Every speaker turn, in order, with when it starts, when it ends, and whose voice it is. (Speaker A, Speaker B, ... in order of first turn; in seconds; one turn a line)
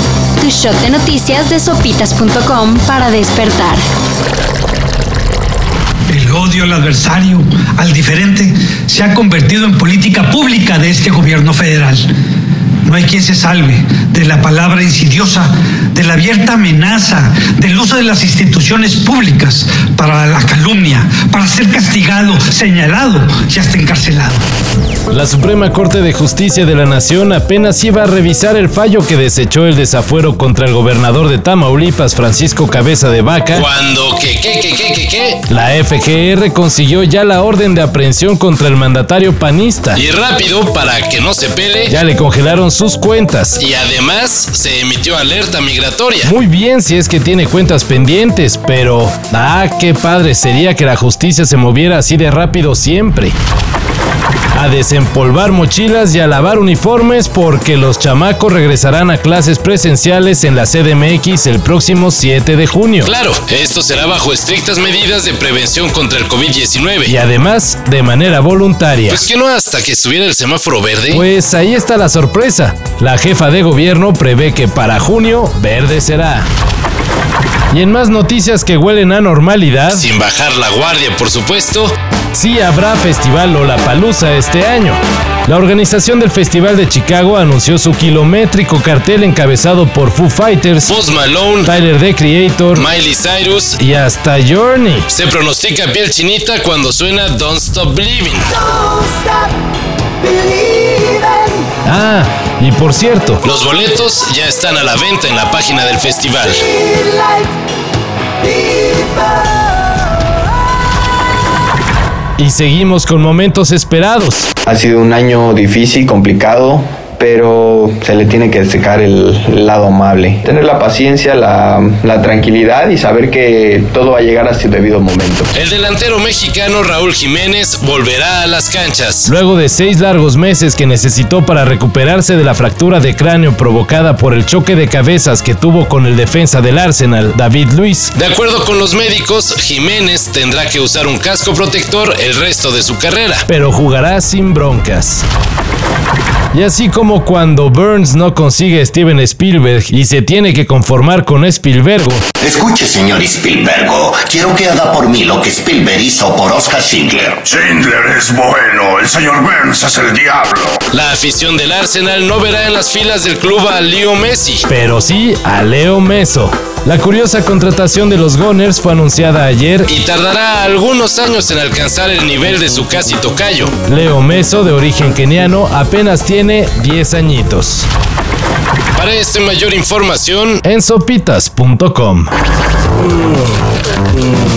Speaker A: 0.4-3.8
Speaker B: 6.1-12.1
Speaker B: 12.8-24.4
Speaker C: 25.1-33.6
Speaker D: 33.5-35.5
Speaker C: 35.5-40.0
Speaker D: 39.9-42.0
Speaker C: 41.9-43.6
Speaker D: 43.6-46.3
Speaker C: 46.2-53.4
Speaker C: 54.5-63.1
Speaker D: 63.0-67.2
Speaker C: 67.0-69.2
Speaker D: 69.1-71.2
Speaker C: 71.1-76.5
Speaker C: 77.7-80.1
Speaker D: 79.9-81.9
Speaker C: 82.3-90.9
Speaker D: 90.8-91.7
Speaker C: 91.6-92.8
Speaker D: 92.7-93.8
Speaker C: 93.8-95.1
Speaker D: 95.1-98.9
Speaker E: 100.3-101.5
Speaker C: 101.8-103.4
Speaker D: 103.4-106.6
Speaker E: 106.9-107.4
Speaker E: 108.7-109.0
Speaker C: 112.4-114.5
Speaker E: 114.7-125.5
Speaker D: 125.5-129.3
Speaker C: 129.2-138.1
Speaker D: 138.1-143.4
Speaker C: 143.5-145.2
Speaker C: 146.5-152.2
Speaker F: 152.4-157.4
Speaker G: 157.4-160.8
Speaker D: 160.9-164.7
Speaker C: 164.7-169.9
Speaker D: 169.9-173.8
Speaker C: 173.8-177.9
Speaker D: 178.9-180.6
Speaker C: 180.6-182.3